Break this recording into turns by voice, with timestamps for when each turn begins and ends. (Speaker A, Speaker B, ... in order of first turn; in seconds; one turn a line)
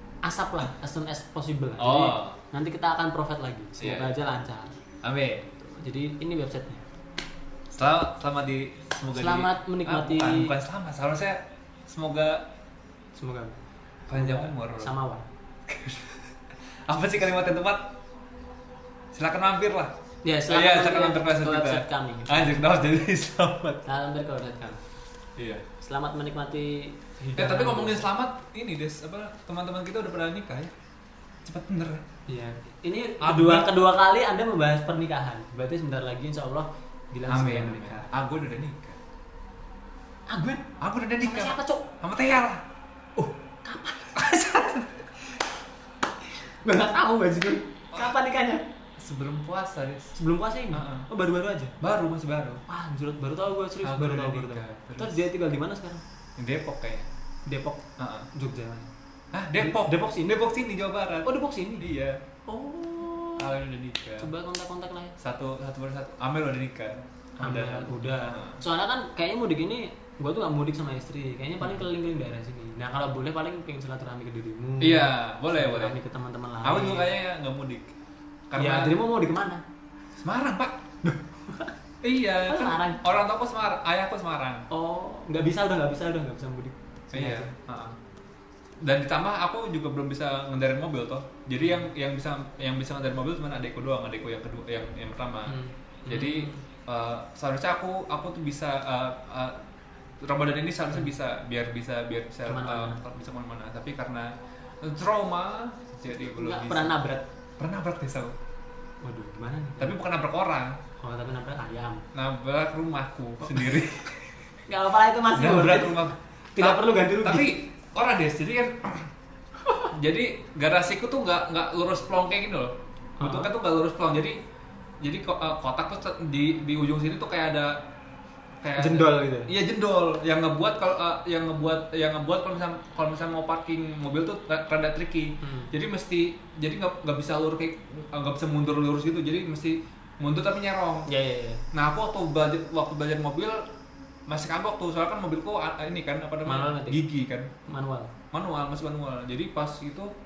Speaker A: 0.2-4.7
Speaker B: 1.8-2.4
Speaker B: 3.8-4.1
Speaker B: 5.0-5.5
Speaker A: 5.6-6.8
Speaker B: 7.7-12.5
Speaker A: 9.1-10.5
Speaker A: 13.1-13.6
Speaker B: 14.1-14.9
Speaker A: 14.1-15.2
Speaker B: 15.7-16.3
Speaker B: 16.9-17.9
Speaker B: 19.1-19.9
Speaker A: 20.2-22.6
Speaker B: 20.5-23.8
Speaker A: 23.8-24.8
Speaker B: 25.4-25.6
Speaker A: 25.8-28.1
Speaker B: 27.4-30.7
Speaker B: 31.4-32.0
Speaker A: 32.3-38.1
Speaker B: 33.2-33.7
Speaker B: 37.3-39.0
Speaker A: 40.3-40.6
Speaker B: 40.8-42.6
Speaker A: 41.2-41.9
Speaker A: 43.1-44.3
Speaker B: 44.1-45.4
Speaker A: 46.6-48.6
Speaker B: 49.0-50.1
Speaker A: 50.1-51.7
Speaker B: 50.7-51.1
Speaker B: 51.8-52.6
Speaker A: 52.7-56.0
Speaker B: 53.8-55.2
Speaker B: 56.4-57.1
Speaker A: 57.5-58.9
Speaker B: 58.0-58.3
Speaker B: 59.3-62.2
Speaker A: 59.6-60.4
Speaker A: 61.2-61.9
Speaker A: 62.5-63.5
Speaker B: 63.4-64.3
Speaker A: 64.2-65.2
Speaker B: 65.2-68.6
Speaker A: 67.4-77.1
Speaker B: 74.8-76.0
Speaker B: 76.6-77.9
Speaker B: 78.5-79.0
Speaker A: 78.6-79.6
Speaker B: 80.2-80.8
Speaker A: 81.0-81.7
Speaker B: 82.0-84.7
Speaker A: 82.5-83.1
Speaker A: 84.7-87.5
Speaker B: 87.1-88.0
Speaker B: 88.8-99.6
Speaker A: 95.5-96.6
Speaker B: 100.2-107.0
Speaker A: 102.5-103.0
Speaker A: 106.3-107.2
Speaker B: 107.6-108.3
Speaker A: 109.0-109.9
Speaker B: 109.8-110.8
Speaker A: 111.0-112.0
Speaker B: 112.1-114.4
Speaker A: 114.7-117.5
Speaker B: 115.3-119.1
Speaker B: 119.8-124.4
Speaker A: 123.2-123.5
Speaker B: 125.0-127.8
Speaker B: 128.6-141.1
Speaker A: 128.8-129.5
Speaker A: 135.4-135.7
Speaker A: 141.1-141.6
Speaker B: 141.7-143.7
Speaker B: 144.3-147.5
Speaker A: 146.4-147.0
Speaker A: 147.7-148.1
Speaker B: 148.3-150.1